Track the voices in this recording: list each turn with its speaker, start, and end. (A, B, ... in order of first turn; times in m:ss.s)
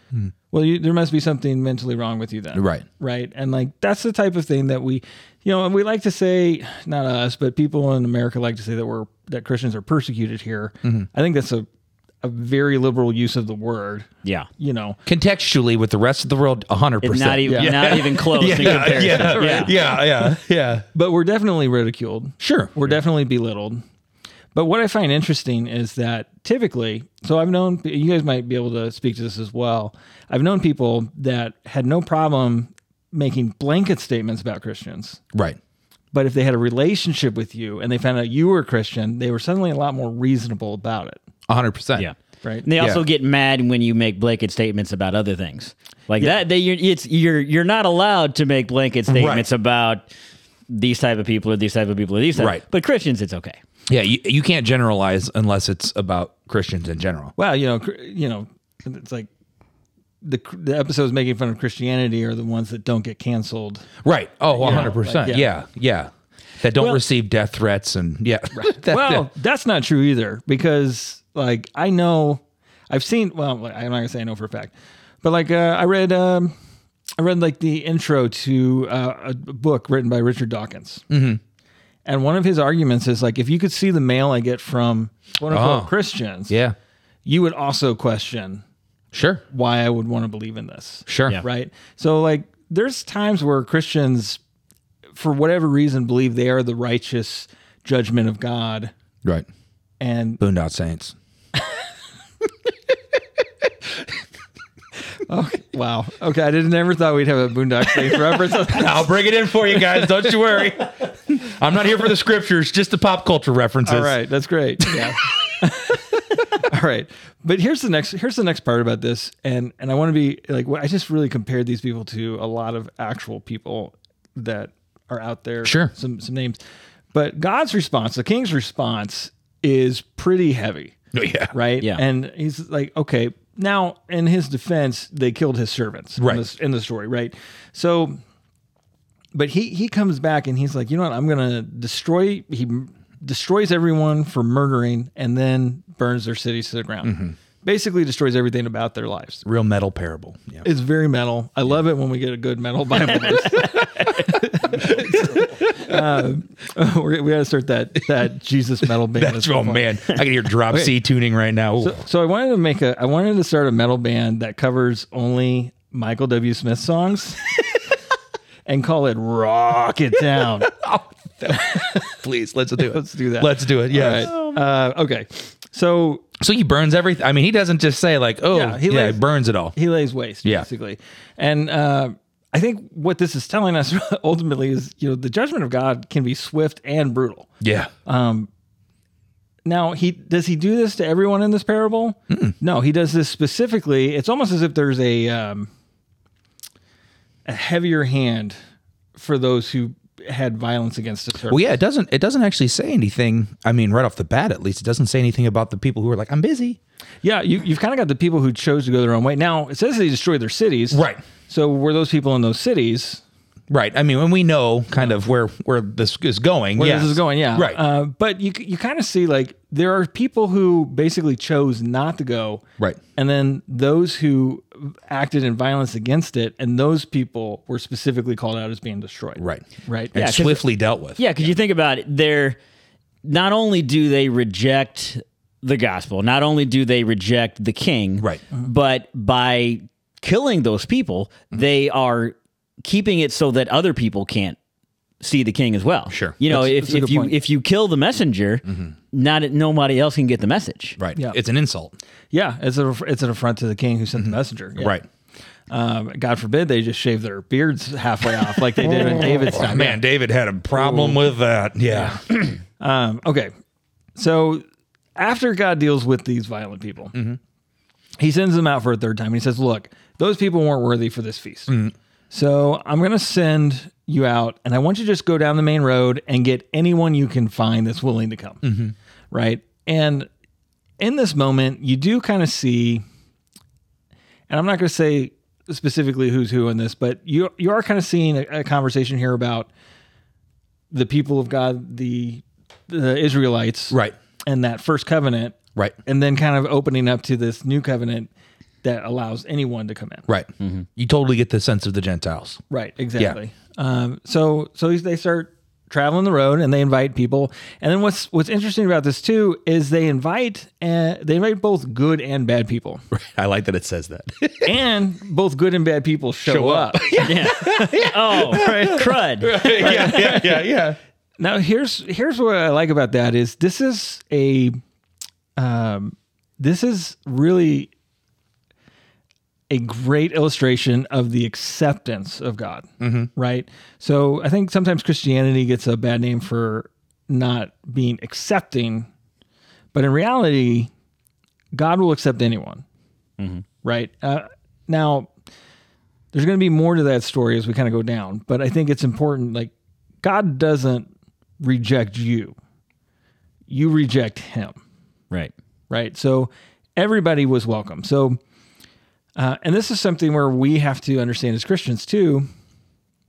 0:00.5-0:11.7 A
0:02.6-0:02.8 B
0:12.2-0:15.0 A
0:15.1-0:20.9 B
0:17.0-0:19.7 C
0:17.5-0:20.3 A
0:20.9-0:23.8 A
0:22.4-0:22.7 B
0:24.5-0:35.2 A
0:35.3-0:35.6 B
0:36.1-0:41.2 A
0:41.5-0:42.1 B
0:42.0-0:50.1 C
0:42.8-0:43.0 B
0:49.1-0:49.5 B
0:50.7-0:53.6 C
0:52.4-0:52.6 B
0:53.9-0:57.3 B
0:57.4-0:59.3 A
1:00.2-1:03.9 A
1:04.0-1:09.3 B
1:04.6-1:05.5 A
1:08.5-1:16.5 A
1:17.2-1:21.1 A
1:21.1-1:21.4 B
1:22.0-1:26.6 A
1:25.5-1:25.9 B
1:26.5-1:26.8 B
1:27.2-1:28.6 A
1:29.1-1:29.4 B
1:29.5-1:34.4 A
1:31.1-1:31.4 B
1:35.2-1:38.9 A
1:40.0-1:40.4 A
1:40.4-1:41.2 B
1:45.3-1:49.2 A
1:48.5-1:54.2 B
1:53.8-2:06.6 A
1:54.8-1:55.1 B
2:05.6-2:05.9 B
2:07.1-2:11.0 A
2:11.1-2:11.5 B
2:11.5-2:18.2 A
2:19.3-2:29.4 A
2:27.0-2:27.4 B
2:29.4-2:30.7 B
2:30.6-2:40.2 A
2:34.7-2:36.0 B
2:39.2-2:42.0 B
2:40.7-2:40.9 A
2:41.8-2:47.5 A
2:48.7-2:50.7 A
2:50.7-2:54.3 B
2:52.8-2:56.3 A
2:56.4-2:59.8 B
2:58.5-3:07.5 A
3:07.6-3:07.9 B
3:08.0-3:08.5 A
3:09.6-3:15.7 A
3:12.3-3:12.6 B
3:17.4-3:18.6 A
3:19.2-3:21.7 A
3:21.5-3:26.8 B
3:27.2-3:33.2 A
3:30.9-3:31.2 B
3:33.7-3:37.8 B
3:36.8-3:42.6 A
3:43.2-3:50.2 A
3:49.4-3:51.2 B
3:50.2-3:50.6 C
3:51.2-3:52.6 C
3:53.2-4:04.6 C
4:05.2-4:11.0 C
4:06.1-4:06.4 B
4:06.5-4:07.3 A
4:11.0-4:12.0 B
4:12.3-4:15.0 A
4:14.2-4:15.0 B
4:15.7-4:20.0 A
4:18.8-4:22.2 B
4:20.7-4:21.2 A
4:21.9-4:22.2 A
4:22.8-4:23.5 A
4:24.2-4:24.6 A
4:25.2-4:27.2 A
4:28.2-4:31.8 A
4:31.7-4:31.9 B
4:32.3-4:38.7 A
4:38.6-4:38.9 B
4:39.3-4:40.3 A
4:41.0-4:43.0 A
4:44.5-4:49.7 A
4:50.9-4:58.3 A
4:58.8-5:00.3 A
5:00.3-5:02.6 B
5:02.7-5:13.0 A
5:13.1-5:14.7 B
5:14.6-5:20.7 A
5:16.5-5:21.0 B
5:17.2-5:20.2 C
5:21.4-5:24.8 A
5:25.6-5:27.9 A
5:29.7-5:39.1 A
5:33.0-5:33.3 B
5:39.9-5:40.9 A
5:41.7-5:42.8 A
5:43.4-5:43.6 C
5:43.8-5:45.3 A
5:46.3-5:52.6 A
5:53.7-5:54.8 A
5:55.9-5:58.4 A
5:59.4-6:02.5 A